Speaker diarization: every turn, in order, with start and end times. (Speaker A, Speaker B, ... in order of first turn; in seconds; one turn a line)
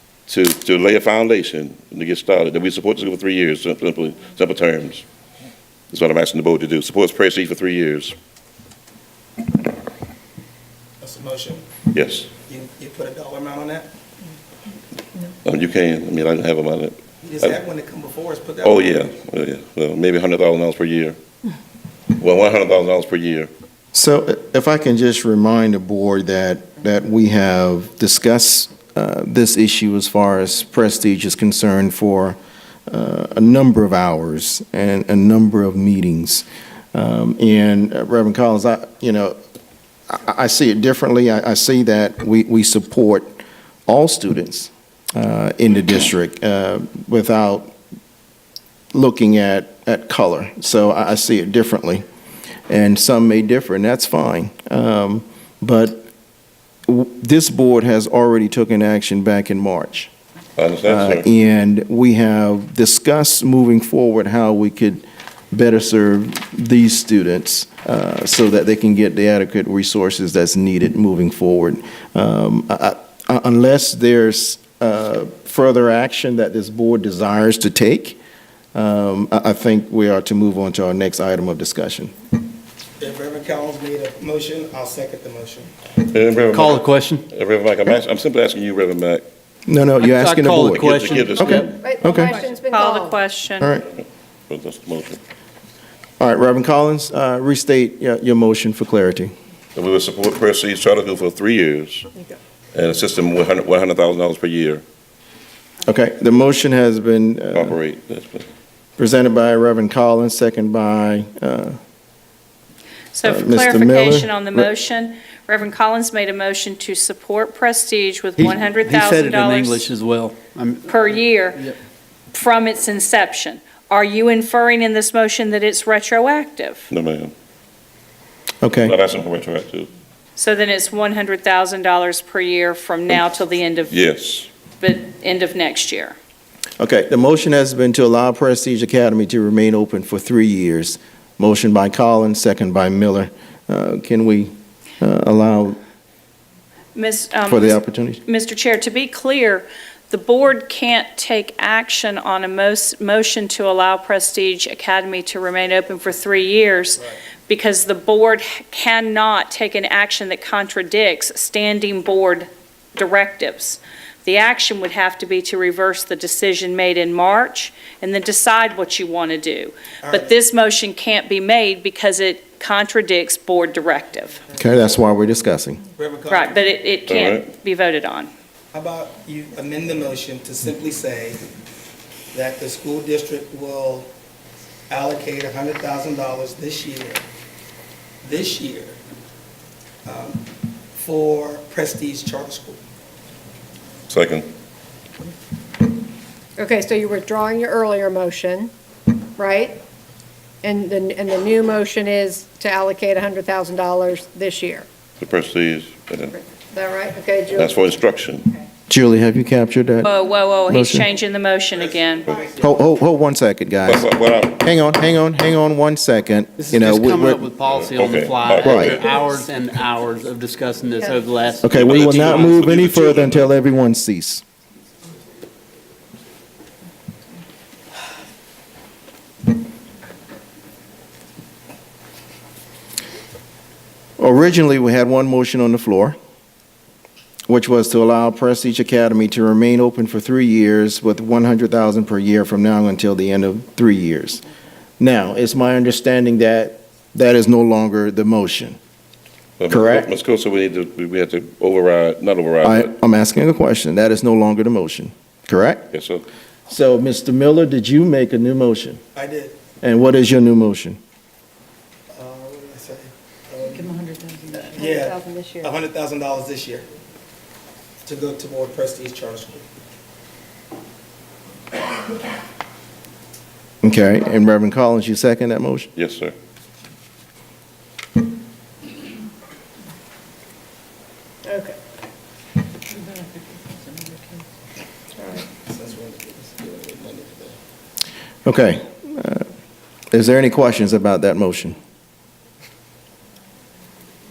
Speaker A: 0.3-5.0
Speaker A: 5.9-8.2
Speaker B: 11.0-11.7
Speaker A: 11.9-12.3
Speaker B: 12.5-13.9
Speaker A: 15.4-17.6
Speaker B: 17.2-19.0
Speaker A: 18.6-21.2
Speaker A: 22.1-23.5
Speaker C: 23.9-32.4
Speaker C: 32.9-39.4
Speaker C: 40.1-47.7
Speaker C: 48.9-52.0
Speaker C: 52.7-56.1
Speaker C: 56.9-60.1
Speaker A: 60.6-61.2
Speaker C: 60.9-78.2
Speaker C: 78.8-82.1
Speaker B: 83.0-85.7
Speaker A: 86.0-89.3
Speaker D: 86.5-87.2
Speaker C: 89.7-92.4
Speaker D: 90.0-91.8
Speaker A: 90.8-91.8
Speaker E: 91.8-93.2
Speaker F: 92.0-93.8
Speaker C: 93.6-93.9
Speaker A: 94.5-95.2
Speaker C: 96.2-99.3
Speaker A: 99.8-102.1
Speaker A: 102.7-104.8
Speaker C: 105.8-107.8
Speaker A: 107.5-108.5
Speaker C: 109.0-111.8
Speaker F: 113.1-119.9
Speaker C: 113.2-114.7
Speaker D: 118.4-121.8
Speaker F: 120.9-121.7
Speaker F: 122.3-126.9
Speaker A: 126.9-127.3
Speaker C: 128.6-129.0
Speaker A: 128.8-129.9
Speaker F: 130.4-134.0
Speaker A: 133.9-134.5
Speaker F: 134.8-136.2
Speaker C: 136.8-145.8
Speaker F: 146.9-174.4
Speaker C: 147.5-148.2
Speaker B: 170.0-170.4
Speaker C: 174.6-175.8
Speaker B: 176.0-176.7
Speaker F: 176.3-178.3
Speaker A: 177.1-177.5
Speaker B: 178.7-181.4
Speaker B: 182.3-184.1
Speaker B: 184.9-187.2
Speaker B: 188.2-189.0
Speaker B: 190.1-190.4
Speaker B: 190.9-192.8
Speaker A: 194.1-194.5
Speaker E: 196.6-199.8
Speaker E: 200.6-204.9
Speaker A: 205.2-206.4
Speaker E: 206.3-207.8
Speaker A: 207.5-208.5
Speaker C: 208.9-210.1
Speaker F: 210.0-212.3
Speaker C: 210.7-211.1
Speaker B: 211.8-212.8
Speaker C: 212.6-217.4
Speaker A: 213.8-214.6
Speaker D: 216.6-222.6
Speaker A: 217.6-219.0
Speaker C: 218.6-219.0
Speaker E: 221.0-221.2
Speaker C: 221.6-224.4
Speaker A: 221.7-223.5
Speaker C: 234.2-236.2
Speaker C: 237.5-244.4
Speaker C: 245.0-248.8
Speaker A: 249.6-252.9
Speaker C: 249.7-250.1
Speaker C: 252.6-255.9
Speaker A: 255.9-256.3
Speaker C: 256.7-259.0
Speaker B: 259.1-259.6
Speaker C: 259.8-261.0
Speaker B: 262.1-266.9
Speaker E: 264.7-265.7
Speaker B: 268.0-269.6
Speaker C: 273.8-275.9
Speaker A: 275.9-276.4
Speaker E: 281.5-281.8
Speaker E: 285.2-285.4
Speaker B: 285.5-287.6
Speaker C: 288.4-289.5
Speaker C: 290.1-291.8